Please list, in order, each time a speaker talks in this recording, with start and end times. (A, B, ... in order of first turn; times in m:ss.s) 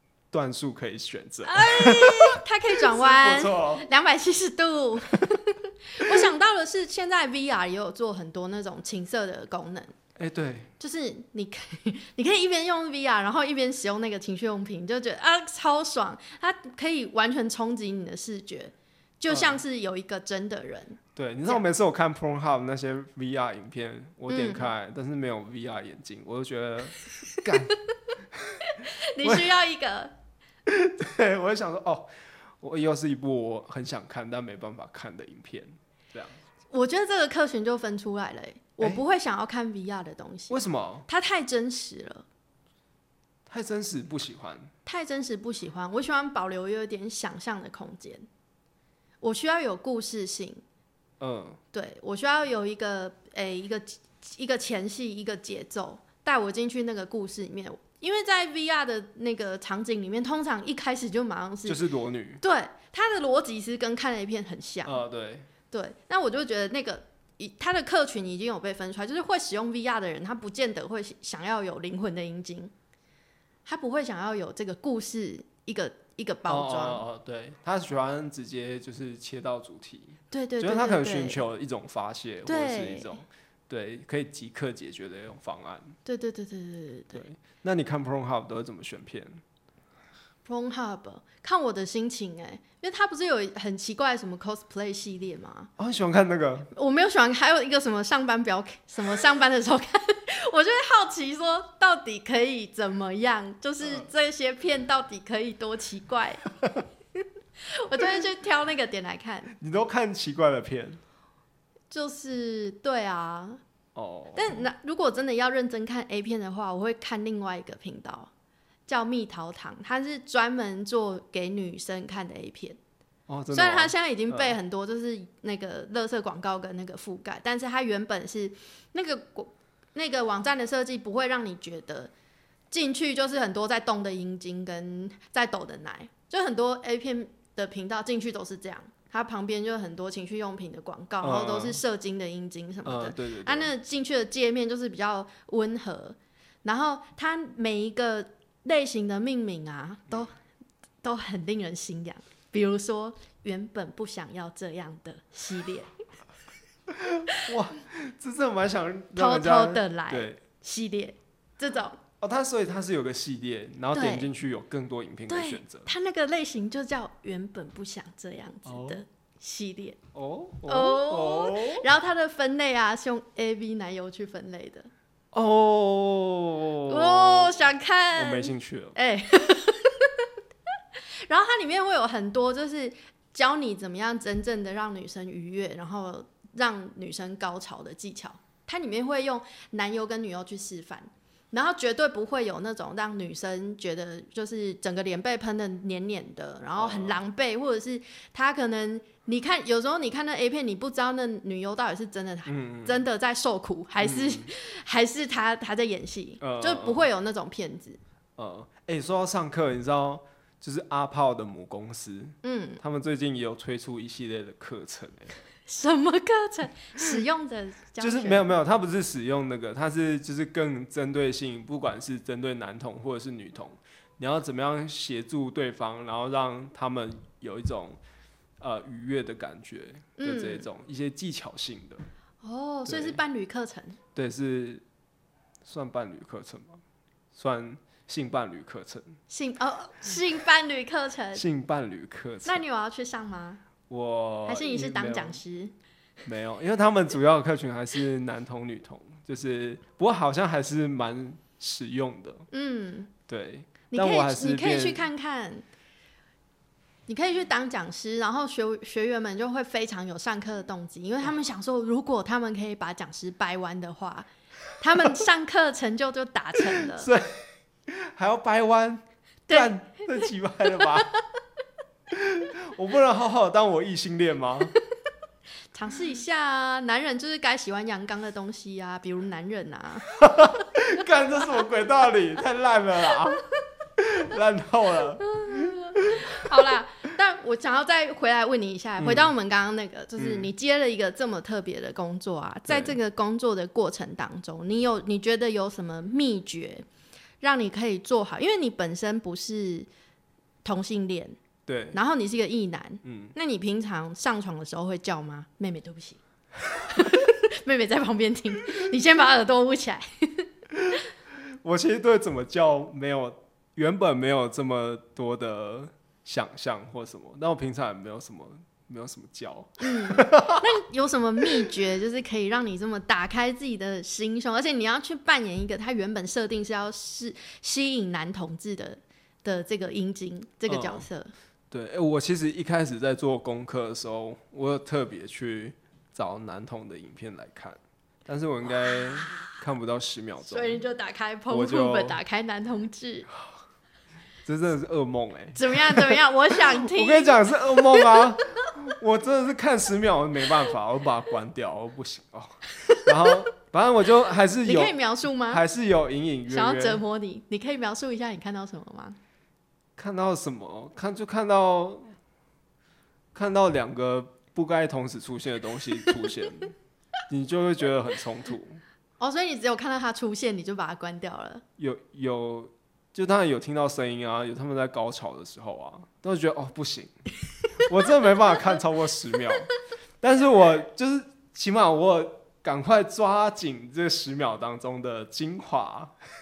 0:00.3-0:03.9 A
0:01.4-0:09.9 B
0:06.0-0:06.3 A
0:10.2-0:10.7 A
0:10.8-0:21.6 B
0:19.3-0:19.6 A
0:21.2-0:27.7 A
0:24.3-0:24.7 B
0:27.3-0:27.7 B
0:28.3-0:28.6 A
0:28.6-0:30.2 B
0:29.2-0:29.5 A
0:30.7-0:36.4 A
0:36.7-0:42.2 B
0:40.5-0:41.1 A
0:43.5-0:44.7 A
0:44.8-0:48.3 B
0:49.2-0:50.6 B
0:51.2-0:51.6 A
0:51.7-1:01.8 B
1:01.7-1:02.4 A
1:02.4-1:05.0 B
1:04.8-1:05.5 A
1:05.7-1:12.7 B
1:13.7-1:17.0 B
1:16.5-1:26.0 A
1:20.3-1:21.4 B
1:22.5-1:23.2 B
1:26.0-1:27.2 B
1:27.1-1:29.4 A
1:30.4-1:35.7 B
1:35.8-1:36.7 A
1:36.7-1:46.4 B
1:43.8-1:44.1 A
1:47.6-1:49.5 B
1:49.6-1:51.0 A
1:51.9-1:53.6 B
1:54.0-1:54.6 A
1:54.4-1:58.3 B
1:58.9-2:02.8 B
2:03.3-2:04.6 A
2:03.5-2:12.1 B
2:12.7-2:30.3 B
2:21.2-2:21.8 A
2:22.8-2:23.7 A
2:31.0-2:35.9 B
2:36.9-2:40.4 A
2:39.2-2:42.0 B
2:42.2-2:45.9 A
2:43.9-2:44.3 B
2:45.3-2:50.0 B
2:48.6-2:49.0 A
2:50.1-2:51.9 A
2:50.7-2:54.9 B
2:55.3-2:57.6 A
2:56.9-3:00.3 B
2:58.2-2:59.0 A
3:01.3-3:28.0 B
3:16.8-3:17.2 A
3:22.5-3:23.0 A
3:24.0-3:24.5 A
3:26.4-3:27.1 A
3:28.4-3:35.3 A
3:32.4-3:32.8 B
3:35.7-3:38.5 B
3:38.0-3:48.0 A
3:48.6-3:52.0 A
3:50.2-3:50.7 B
3:52.4-3:54.0 B
3:52.9-3:53.2 A
3:54.2-3:54.8 A
3:55.6-3:56.8 A
3:57.3-3:59.2 A
3:59.3-4:01.4 B
4:01.3-4:02.6 A
4:02.4-4:03.6 B
4:03.9-4:05.4 A
4:04.5-4:05.7 B
4:06.2-4:12.5 A
4:12.5-4:13.1 B
4:13.3-4:15.1 A
4:13.9-4:15.6 B
4:17.1-4:24.3 B
4:24.8-4:27.1 B
4:26.7-4:31.1 A
4:29.5-4:31.1 B
4:32.1-4:34.7 A
4:35.7-4:40.2 B
4:40.2-4:43.4 A
4:44.0-4:46.7 A
4:45.4-4:56.8 B
4:49.0-4:49.3 A
4:50.2-4:50.5 A
4:52.7-4:53.0 A
4:57.4-4:59.9 B
5:00.6-5:01.4 B
5:01.7-5:02.0 A
5:01.9-5:06.2 B
5:03.0-5:03.3 A
5:06.8-5:10.5 B
5:11.6-5:20.7 A
5:19.8-5:31.3 B
5:30.7-5:31.1 A
5:31.7-5:40.8 A
5:40.4-5:43.3 B
5:41.5-5:42.2 A
5:44.4-5:46.2 A
5:45.6-5:48.3 B
5:46.7-5:57.0 A
5:52.8-5:53.4 B
5:54.6-5:55.6 B
5:56.5-5:59.2 B
6:00.0-6:02.1 A
6:03.3-6:06.7 A
6:07.3-6:08.8 A
6:09.2-6:11.6 B
6:11.8-6:17.1 A
6:17.8-6:19.7 A
6:20.2-6:26.1 A